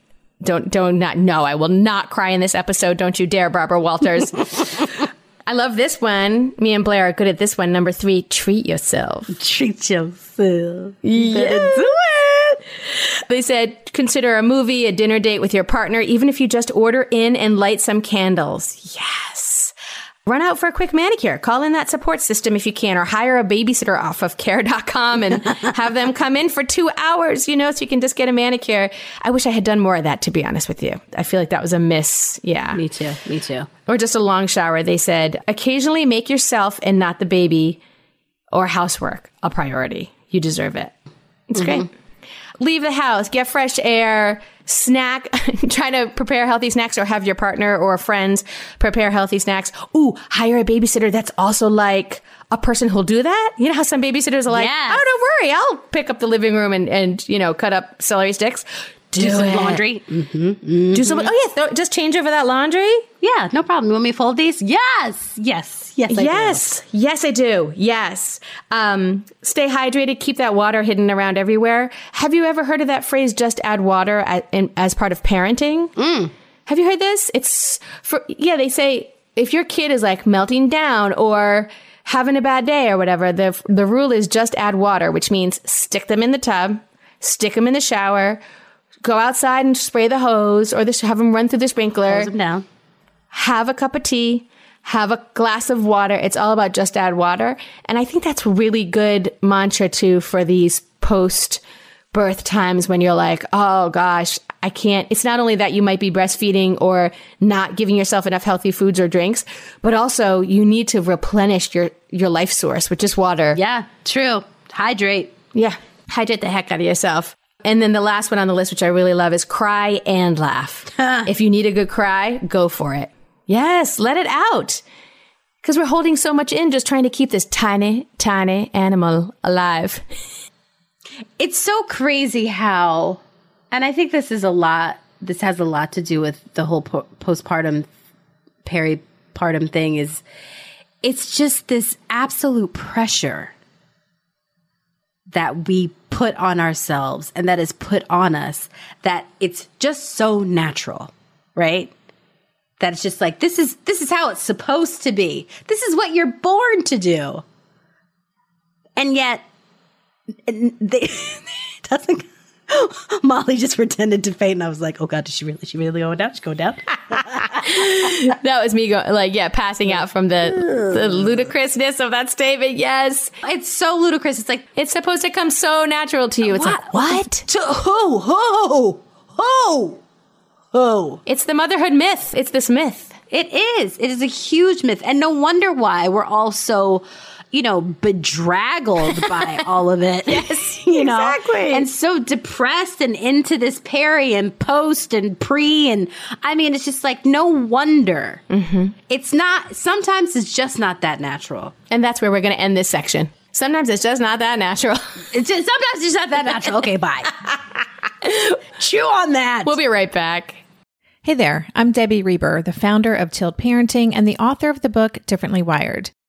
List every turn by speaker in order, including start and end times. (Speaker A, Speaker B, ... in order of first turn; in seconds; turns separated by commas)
Speaker A: 0.4-4.8, Speaker A: 5.5-9.3, Speaker B: 9.3-12.6, Speaker A: 11.0-11.9, Speaker A: 13.3-19.7, Speaker A: 20.3-32.8, Speaker B: 32.7-33.7, Speaker A: 33.9-37.8, Speaker A: 38.5-40.9, Speaker A: 41.5-41.9, Speaker B: 41.6-41.9, Speaker A: 42.6-59.8, Speaker B: 54.5-55.0, Speaker B: 59.2-61.3, Speaker A: 60.9-63.0, Speaker B: 63.2-66.6, Speaker A: 66.1-75.9, Speaker B: 76.0-76.3, Speaker A: 76.7-88.4, Speaker A: 89.0-92.3, Speaker B: 92.1-92.7, Speaker A: 93.3-113.6, Speaker B: 113.5-115.3, Speaker A: 115.5-124.8, Speaker B: 121.0-121.3, Speaker A: 125.6-130.0, Speaker B: 131.4-137.9, Speaker B: 138.7-140.2, Speaker B: 141.0-143.5, Speaker B: 145.3-151.9, Speaker B: 152.8-157.4, Speaker B: 159.0-159.4, Speaker B: 160.5-168.2, Speaker A: 167.4-173.3, Speaker B: 170.6-171.2, Speaker B: 173.4-174.7, Speaker A: 174.8-177.4, Speaker B: 176.4-180.0, Speaker B: 180.7-181.2, Speaker A: 181.3-183.2, Speaker B: 183.3-198.4, Speaker A: 190.3-191.9, Speaker A: 198.5-198.9, Speaker B: 199.1-201.7, Speaker A: 201.9-205.1, Speaker B: 205.3-207.3, Speaker A: 208.2-208.5, Speaker B: 208.8-209.7, Speaker A: 209.7-210.6, Speaker C: 211.2-216.1